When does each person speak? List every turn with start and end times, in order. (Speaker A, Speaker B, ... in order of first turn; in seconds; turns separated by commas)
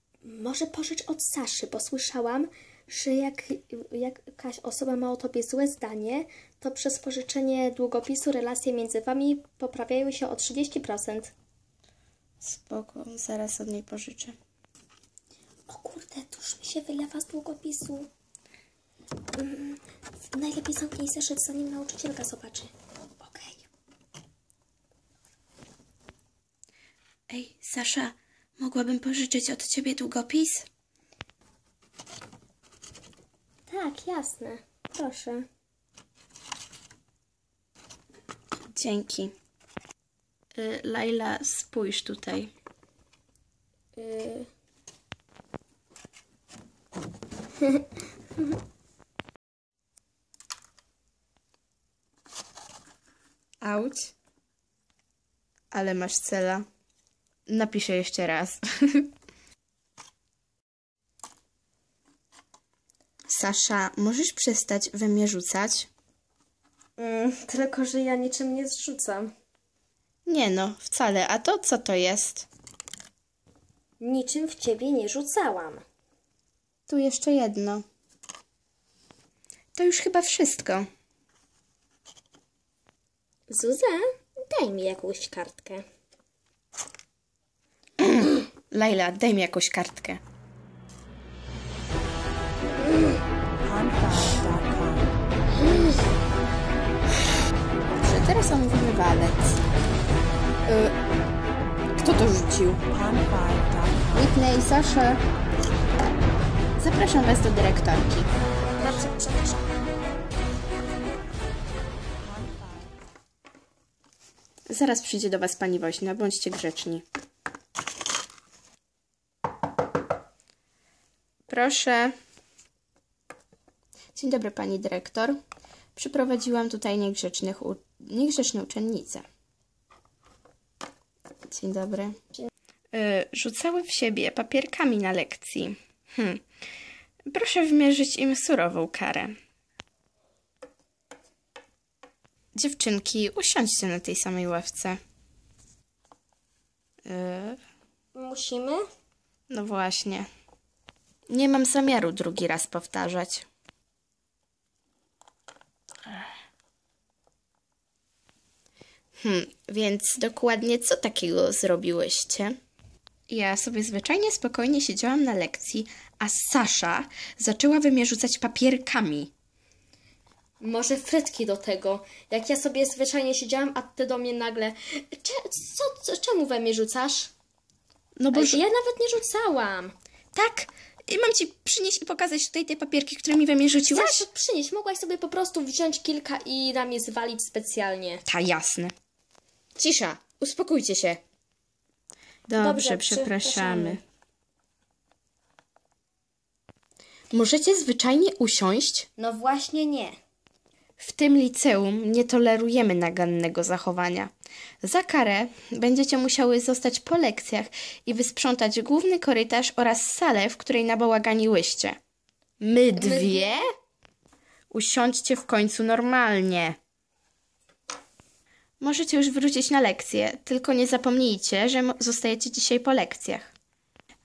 Speaker A: 0.2-11.3, Speaker B: 12.4-14.4, Speaker A: 15.7-18.1, Speaker A: 19.4-23.7, Speaker B: 27.3-30.7, Speaker A: 33.7-35.5, Speaker B: 38.8-39.3, Speaker B: 40.5-42.5, Speaker A: 44.0-44.5, Speaker B: 53.6-54.1, Speaker B: 55.7-56.6, Speaker B: 57.5-59.1, Speaker B: 63.3-65.9, Speaker A: 67.0-69.3, Speaker B: 70.2-72.5, Speaker A: 74.0-75.8, Speaker B: 76.9-77.8, Speaker B: 79.7-80.9, Speaker A: 83.5-85.9, Speaker B: 88.0-90.2, Speaker B: 97.9-99.6, Speaker B: 100.6-100.9, Speaker B: 102.0-102.8, Speaker B: 104.1-105.2, Speaker B: 106.8-108.3, Speaker A: 108.8-109.6, Speaker B: 114.7-117.0, Speaker B: 121.5-122.1, Speaker B: 124.1-125.4, Speaker B: 126.0-129.2, Speaker B: 131.5-132.2, Speaker B: 132.9-136.4, Speaker B: 137.3-139.3, Speaker B: 142.5-145.0, Speaker B: 147.0-147.6, Speaker A: 148.1-148.8, Speaker B: 149.5-150.3, Speaker B: 151.3-153.5, Speaker B: 159.2-162.6, Speaker B: 163.3-169.3, Speaker A: 170.6-177.3, Speaker B: 178.2-178.6, Speaker A: 178.3-179.9, Speaker B: 180.3-184.2, Speaker A: 183.9-188.2, Speaker B: 188.3-188.9, Speaker B: 189.8-191.2, Speaker B: 192.5-194.0, Speaker A: 192.6-194.0, Speaker B: 197.3-199.1, Speaker A: 199.2-200.2, Speaker B: 201.0-212.0, Speaker B: 212.6-213.7, Speaker A: 212.9-213.6, Speaker B: 214.7-216.8, Speaker B: 218.8-223.5